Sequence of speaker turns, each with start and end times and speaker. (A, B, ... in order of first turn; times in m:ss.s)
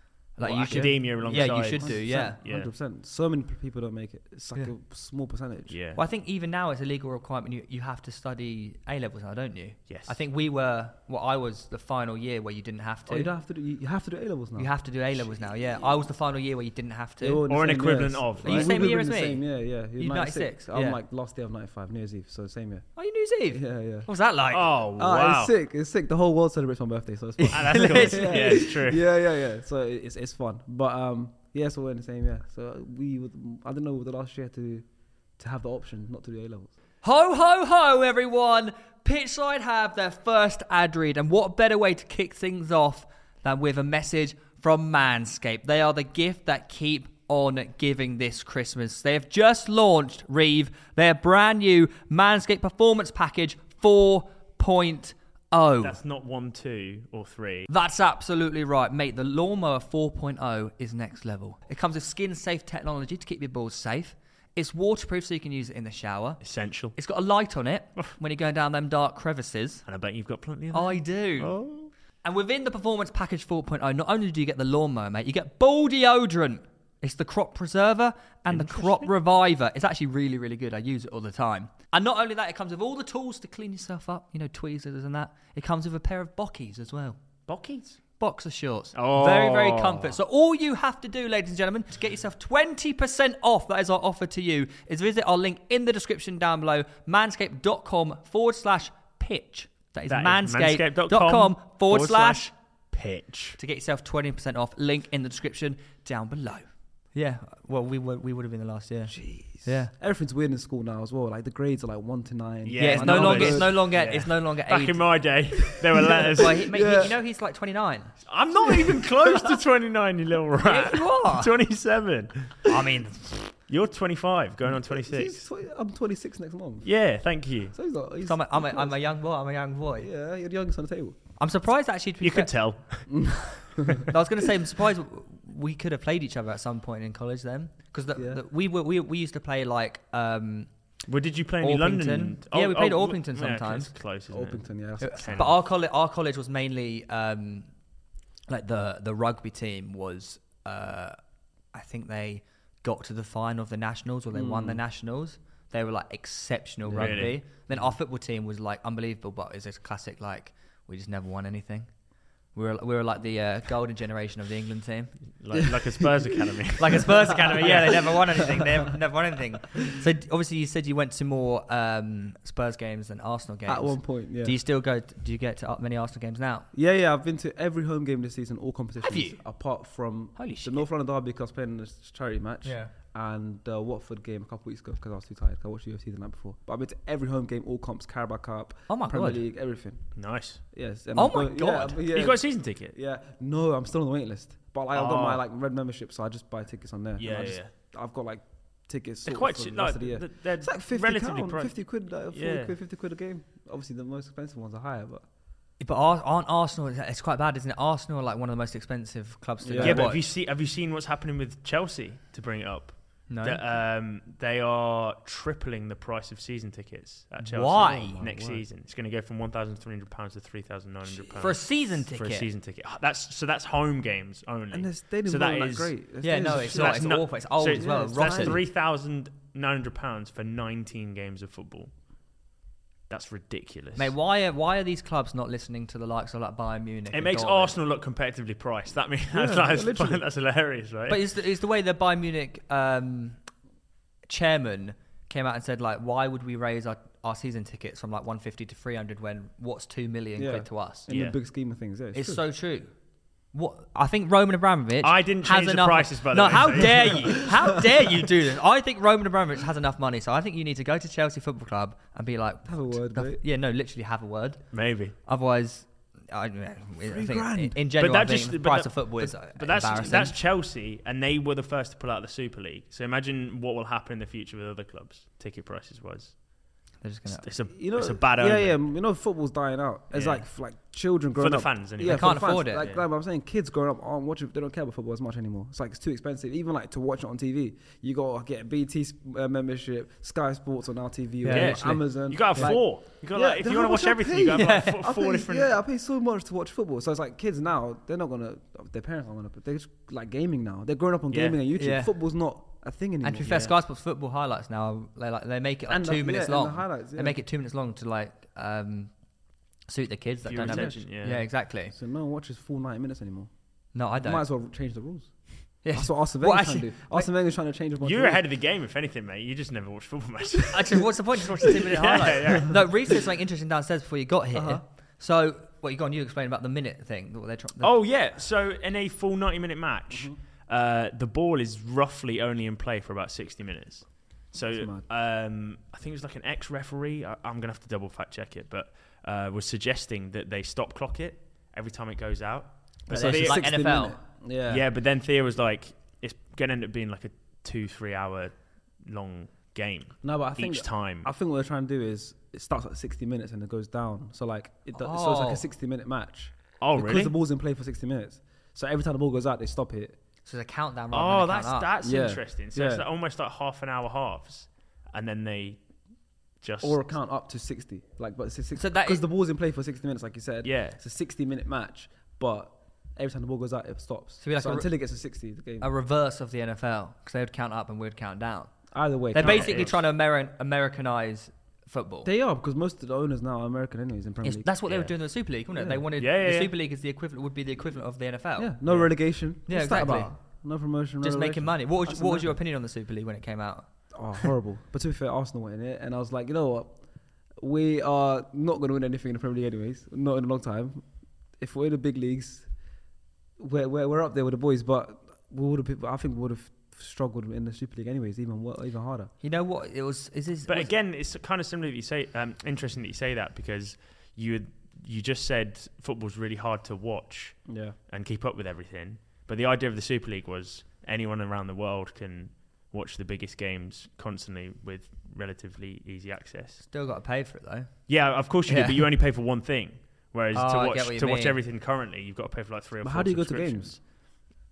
0:00.4-0:02.4 A
0:00.4-0:02.7 B
0:00.6-0:05.8 C
0:05.7-0:06.0 B
0:06.0-0:13.3 A
0:09.9-0:10.1 B
0:13.1-0:16.0 C
0:14.6-0:17.4 A
0:17.2-0:22.9 C
0:17.5-0:18.8 B
0:18.4-0:19.4 A
0:20.0-0:21.0 A
0:23.0-0:24.7 A
0:23.5-0:24.1 C
0:24.5-0:25.5 B
0:25.0-0:34.8 C
0:27.4-0:28.7 A
0:27.5-0:29.0 B
0:35.4-0:36.7 C
0:37.0-0:56.0 A
0:55.8-0:57.7 B
0:57.7-1:06.4 A
1:06.4-1:07.0 B
1:06.9-1:09.8 A
1:09.8-1:11.9 B
1:10.7-1:11.5 A
1:12.2-1:27.2 A
1:18.5-1:19.1 B
1:27.5-1:28.0 B
1:28.2-1:42.5 A
1:28.9-1:30.2 B
1:40.1-1:43.6 B
1:43.6-1:49.9 A
1:49.1-1:53.8 C
1:52.6-1:56.7 B
1:52.8-1:55.0 A
1:55.7-1:57.2 C
1:56.3-1:58.2 A
1:58.3-2:02.8 B
1:58.5-1:59.6 C
2:00.6-2:01.5 A
2:02.6-2:03.5 A
2:03.7-2:05.4 B
2:04.9-2:06.9 C
2:06.8-2:07.7 B
2:07.7-2:09.0 C
2:08.2-2:10.1 A
2:10.0-2:11.2 C
2:11.4-2:12.5 A
2:12.2-2:14.0 B
2:13.1-2:14.1 C
2:14.1-2:20.7 A
2:18.2-2:18.4 C
2:21.1-2:25.5 B
2:21.6-2:23.9 A
2:24.3-2:25.5 C
2:25.0-2:27.7 A
2:28.5-2:31.2 A
2:31.7-2:41.9 A
2:34.3-2:34.8 C
2:36.8-2:37.3 C
2:36.9-2:37.4 B
2:42.5-2:45.2 A
2:45.4-2:48.2 B
2:45.5-2:46.4 C
2:46.8-2:56.7 A
2:47.9-2:48.9 C
2:53.7-2:54.5 C
2:56.7-3:10.0 C
2:59.0-2:59.4 A
3:00.4-3:00.8 A
3:02.6-3:02.9 A
3:08.9-3:09.4 A
3:10.2-3:10.6 B
3:10.6-3:25.2 C
3:11.2-3:12.0 A
3:12.1-3:13.0 B
3:14.9-3:15.4 B
3:17.2-3:17.7 B
3:19.2-3:21.8 B
3:22.3-3:22.7 B
3:25.8-3:30.2 A
3:29.6-3:30.1 C
3:29.8-3:45.9 B
3:33.3-3:33.6 A
3:37.4-3:38.2 A
3:37.8-3:38.6 C
3:41.3-3:42.5 A
3:44.7-3:48.6 C
3:46.2-3:48.6 A
3:46.5-3:51.9 B
3:53.1-3:54.1 B
3:54.0-3:57.8 A
3:57.1-4:01.2 B
3:59.3-4:00.2 C
4:01.1-4:03.4 A
4:04.3-4:11.1 A
4:10.4-4:12.4 C
4:11.1-4:11.3 B
4:12.1-4:12.9 A
4:13.5-4:30.4 A
4:15.0-4:17.5 B
4:22.6-4:23.4 C
4:24.7-4:25.1 B
4:27.0-4:27.8 C
4:28.0-4:36.4 B
4:37.0-4:37.5 A
4:37.3-4:38.8 B
4:37.7-5:03.6 C
4:40.1-4:40.5 B
4:41.4-4:43.0 B
4:42.0-4:42.9 A
4:51.4-4:52.8 A
4:51.5-4:55.7 B
4:54.5-4:55.0 A
5:01.3-5:01.6 B
5:01.7-5:02.1 A
5:03.2-5:09.1 A
5:03.4-5:03.7 B
5:05.9-5:07.4 C
5:09.9-5:11.9 A
5:10.4-5:11.4 B
5:10.6-5:11.3 C
5:11.8-5:13.5 C
5:13.9-5:14.4 A
5:14.2-5:18.4 C
5:15.8-5:17.3 A
5:18.0-5:22.9 B
5:20.7-5:27.9 A
5:24.5-5:24.8 C
5:27.8-5:43.6 B
5:30.1-5:30.4 C
5:34.7-5:35.0 C
5:43.1-5:44.8 C
5:43.1-5:44.2 A
5:44.7-5:51.3 B
5:50.2-6:00.2 C
5:54.9-5:55.6 A
5:56.8-5:57.3 B
6:00.4-6:01.9 A
6:01.1-6:05.8 B
6:02.0-6:03.0 C
6:06.6-6:07.0 B
6:06.8-6:15.9 C
6:08.8-6:09.2 A
6:10.6-6:11.0 B
6:14.4-6:14.9 A
6:15.8-6:22.3 A
6:18.9-6:19.9 C
6:19.4-6:20.0 B
6:22.2-6:24.7 C
6:24.4-6:28.8 A
6:24.9-6:25.1 B
6:25.8-6:26.0 C
6:26.2-6:26.7 B
6:28.6-6:32.6 C
6:29.7-6:30.4 A
6:31.2-6:34.5 A
6:34.1-6:37.0 C
6:37.6-6:42.7 C
6:43.6-6:49.3 C
6:49.4-6:50.9 A
6:50.7-7:06.9 B
6:57.7-6:58.0 C
7:06.9-7:08.1 A
7:08.1-7:14.0 B
7:08.6-7:09.0 A
7:10.5-7:11.6 A
7:13.0-7:14.0 C